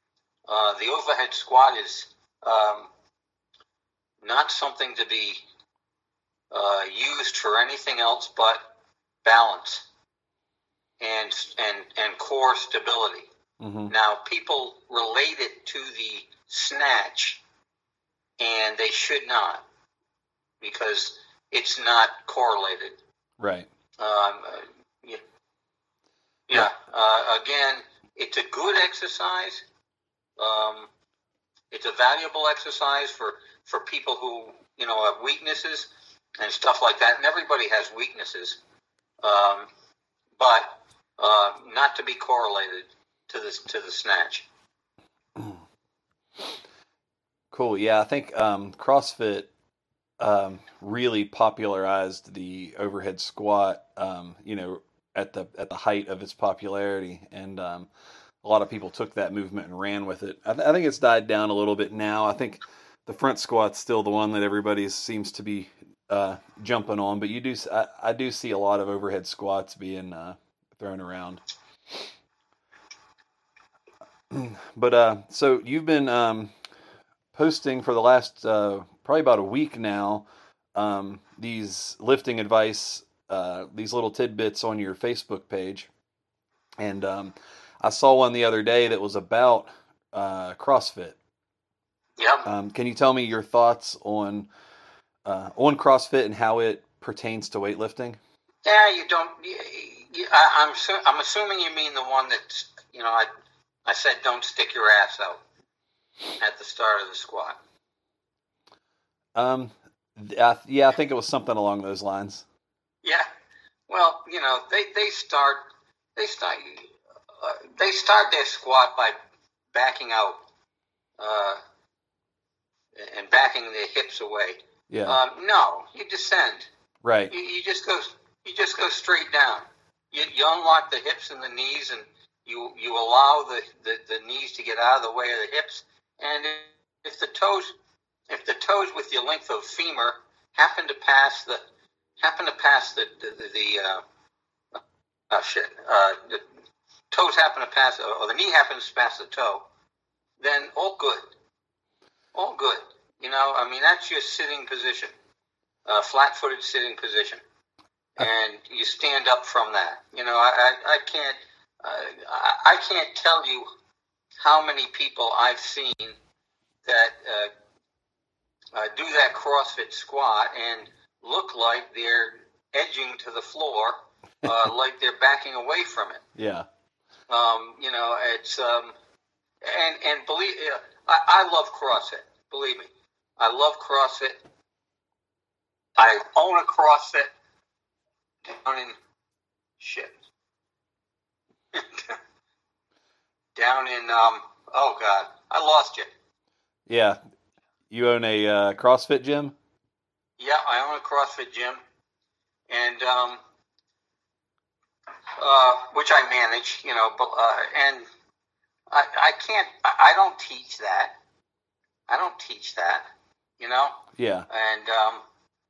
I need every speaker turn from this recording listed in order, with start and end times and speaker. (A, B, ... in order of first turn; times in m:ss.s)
0:00.5-0:02.9 A
0:04.2-0:05.4 A
0:06.5-0:08.7 A
0:09.2-0:09.9 A
0:11.0-0:13.3 A
0:13.6-0:13.9 B
0:13.9-0:17.4 A
0:18.4-0:19.6 A
0:20.6-0:23.0 A
0:23.4-0:23.7 B
0:24.0-0:25.2 A
0:26.5-0:29.6 A
0:30.4-0:30.9 A
0:31.7-0:38.6 A
0:39.2-0:39.7 A
0:40.4-0:44.5 A
0:47.5-0:49.5 B
0:50.2-0:57.9 B
0:58.4-1:11.4 B
1:14.3-1:16.5 B
1:17.3-1:25.9 B
1:26.8-1:31.2 B
1:32.2-1:32.5 A
1:32.4-1:34.5 B
1:35.2-1:38.2 B
1:38.6-1:43.3 A
1:43.8-1:45.4 A
1:46.4-1:47.6 A
1:49.4-1:52.4 B
1:53.9-1:55.6 A
1:56.2-1:59.2 A
1:59.7-2:00.4 A
2:01.2-2:01.6 A
2:03.0-2:06.7 A
2:04.9-2:05.2 B
2:07.0-2:07.3 B
2:07.3-2:17.7 A
2:18.3-2:21.6 A
2:22.2-2:24.0 A
2:24.7-2:26.4 A
2:27.1-2:29.6 A
2:30.4-2:31.2 A
2:32.3-2:35.1 A
2:35.8-2:37.4 A
2:38.2-2:43.7 A
2:44.4-2:46.2 A
2:46.8-2:47.5 A
2:48.7-2:56.2 A
2:56.4-2:56.7 B
2:57.3-2:59.0 A
2:59.6-3:04.4 A
3:06.0-3:07.3 A
3:08.4-3:09.0 A
3:09.8-3:10.2 A
3:11.7-3:12.2 A
3:13.6-3:16.1 A
3:16.9-3:17.2 B
3:17.9-3:19.6 B
3:20.4-3:21.8 A
3:22.7-3:23.4 A
3:25.4-3:28.0 A
3:28.9-3:31.2 A
3:32.1-3:33.1 A
3:33.6-3:35.2 A
3:34.2-3:34.5 B